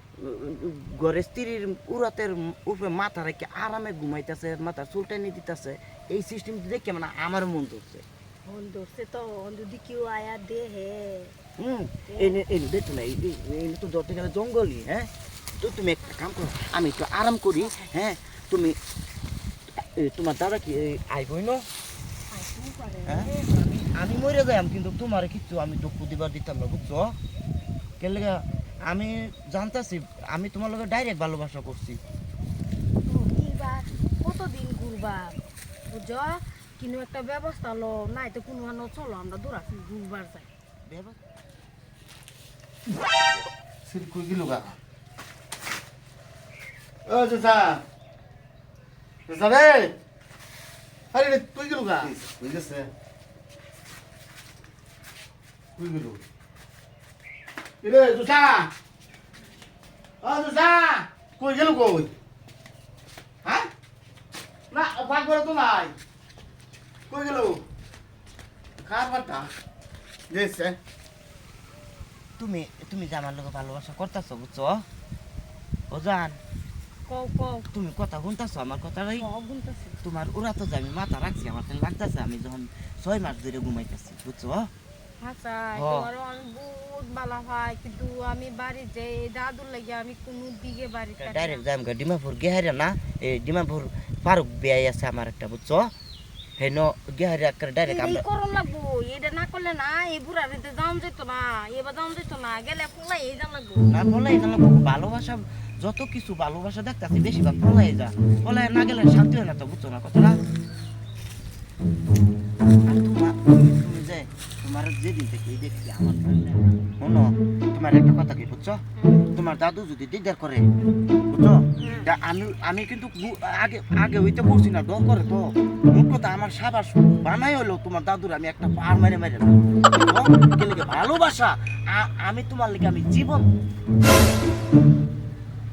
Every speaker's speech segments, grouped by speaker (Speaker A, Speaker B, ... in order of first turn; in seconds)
Speaker A: 0.2-8.1, 11.6-18.8, 19.8-21.7, 23.1-27.2, 28.0-32.0, 40.9-41.2, 72.4-74.8, 75.9-76.4, 77.7-79.3, 80.0-84.7, 85.8-86.1, 91.2-95.9, 96.6-98.2, 103.9-110.4, 112.8-120.7, 121.3-133.5
Speaker B: 8.5-11.3, 12.1-12.4, 17.6-17.8, 22.3-23.5, 33.1-35.4, 35.9-40.5, 77.1-77.7, 79.2-80.0, 85.2-91.6, 97.8-103.9, 119.0-119.3, 121.8-122.1
Speaker C: 43.9-44.8, 47.1-47.8, 49.3-50.0, 51.1-52.9, 55.8-56.2, 57.8-58.7, 60.2-62.1, 64.7-65.9, 67.1-67.6, 68.8-69.5, 70.3-70.8